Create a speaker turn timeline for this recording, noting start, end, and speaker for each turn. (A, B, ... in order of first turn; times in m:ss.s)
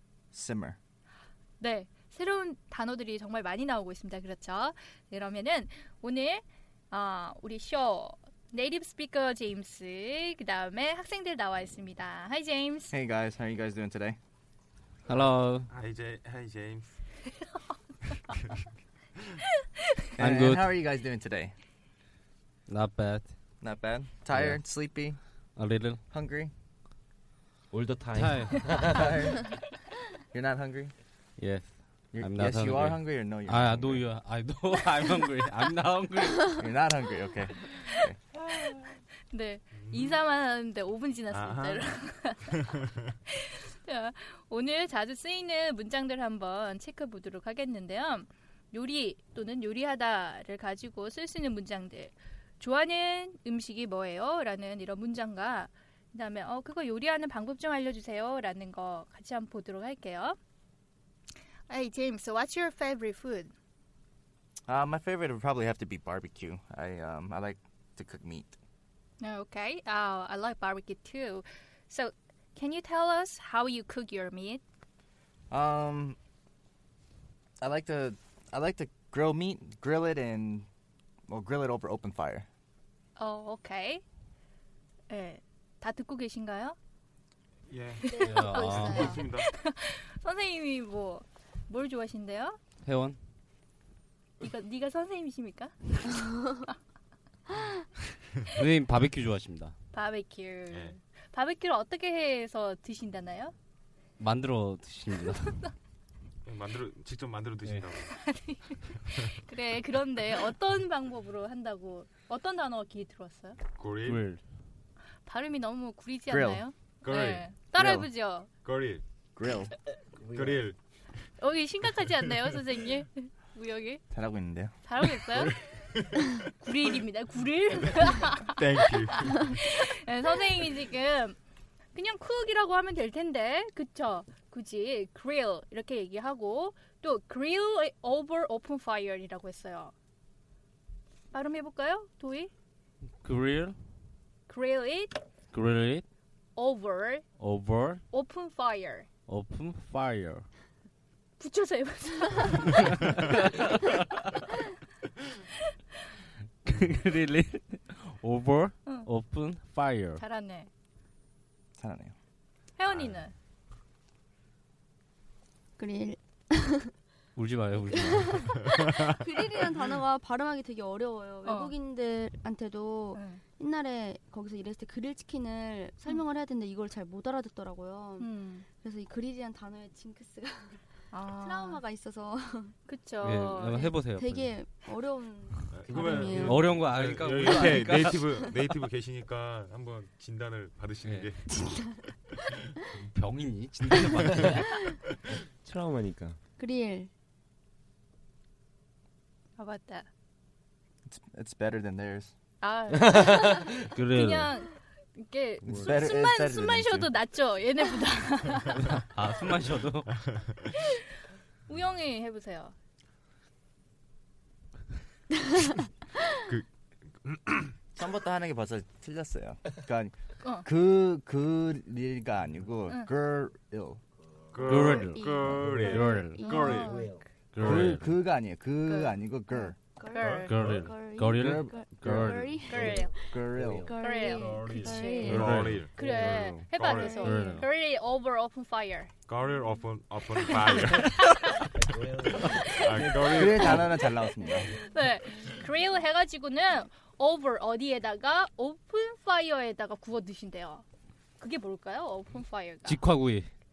0:00.3-0:00.8 A
0:01.6-0:12.9 B
0:12.9-0:14.2 A
0:15.0-0:15.7 C
0:15.7-0:17.0 D
0:20.2-0:20.7 C
0:20.2-0:21.5 A
0:22.7-0:23.3 C
0:23.6-0:25.2 A
0:24.3-0:24.7 C
0:25.6-0:26.0 C
0:26.1-0:26.5 A
0:27.7-0:29.4 E
0:28.2-0:28.6 C
0:28.9-0:29.4 A
0:30.3-0:30.9 A
0:31.4-0:36.6 C
0:32.1-0:34.0 A
0:36.6-0:38.2 A
0:39.3-0:42.6 B
0:39.8-0:40.2 D
0:41.3-0:41.8 D
0:42.5-0:43.1 D
0:43.3-1:00.4 B
1:01.7-1:03.5 B
1:04.7-1:08.6 A
1:09.2-1:14.6 B
1:15.5-1:16.2 A
1:17.6-1:20.7 A
1:21.3-1:22.4 A
1:23.2-1:24.0 B
1:25.1-1:26.8 B
1:27.7-1:28.2 D
1:28.0-1:32.6 B
1:28.2-1:29.1 C
1:28.2-1:29.2 F
1:28.7-1:29.5 D
1:32.8-1:33.2 C
1:34.4-1:36.5 B
1:38.5-1:39.7 C
1:39.9-1:43.5 B
1:40.7-1:41.0 D
1:44.2-1:45.5 C
1:46.4-1:48.1 D
1:48.0-1:53.6 B
1:53.7-1:54.2 D
1:54.0-1:54.4 C
1:55.2-1:58.5 B
1:56.3-1:56.6 A
1:57.0-1:57.4 D
1:57.7-1:58.1 A
1:58.6-1:59.0 D
1:59.3-1:59.7 A
2:00.2-2:00.8 D
2:01.4-2:04.0 B
2:04.1-2:04.8 A
2:04.8-2:05.6 B
2:05.1-2:06.4 D
2:06.5-2:11.4 B
2:08.5-2:09.6 D
2:11.9-2:19.9 B
2:21.3-2:22.5 B
2:23.2-2:23.8 C
2:24.5-2:25.2 B
2:25.5-2:26.0 C
2:26.6-2:27.2 B
2:27.4-2:28.0 C
2:28.1-2:29.1 B
2:29.3-2:30.5 C
2:31.4-2:33.0 B
2:33.1-2:33.9 C
2:36.6-2:40.2 C
2:40.2-2:40.7 B
2:41.8-2:42.1 A
2:42.8-2:43.3 B
2:45.8-2:46.9 F
2:47.4-2:48.6 C
2:47.9-3:02.7 F
2:51.4-2:51.7 B
2:53.1-2:53.4 B
2:58.2-2:58.6 B
3:01.1-3:01.8 B
3:02.9-3:04.0 B
3:03.2-3:04.6 C
3:03.6-3:06.8 F
3:05.7-3:11.7 D
3:06.3-3:08.3 C
3:11.0-3:11.3 C
3:12.9-3:14.7 C
3:15.6-3:16.4 E
3:16.6-3:17.1 F
3:19.6-3:20.1 B
3:21.1-3:22.3 A
3:22.6-3:28.8 B
3:23.0-3:23.9 E
3:23.9-3:24.5 C
3:25.6-3:25.9 C
3:25.8-3:27.1 A
3:28.7-3:30.1 C
3:30.8-3:31.0 B
3:31.7-3:32.7 B
3:37.2-3:37.7 D
3:38.0-3:44.0 A
3:40.4-3:40.7 B
3:44.5-3:46.8 D
3:44.6-3:46.6 C
3:44.6-3:46.9 F
3:46.4-3:47.2 B
3:46.8-3:47.9 E
3:47.5-3:48.1 C
3:47.6-3:49.8 A
3:48.8-3:49.2 B
3:49.5-3:56.0 F
3:50.0-3:50.6 B
3:50.2-3:52.6 C
3:50.3-3:50.6 D
3:51.3-3:52.4 A
3:52.7-3:53.1 B
3:52.8-3:53.9 E
3:53.3-3:53.9 A
3:54.0-3:59.1 B
3:54.3-3:57.2 D
3:55.2-3:55.8 C
3:56.9-3:57.6 F
3:57.1-3:57.6 C
3:59.3-4:01.6 D
4:00.4-4:01.6 B
4:01.7-4:03.0 E
4:02.4-4:03.5 B
4:02.7-4:04.0 D
4:03.0-4:04.7 A
4:04.7-4:10.8 B
4:11.4-4:13.0 B
4:12.8-4:13.5 C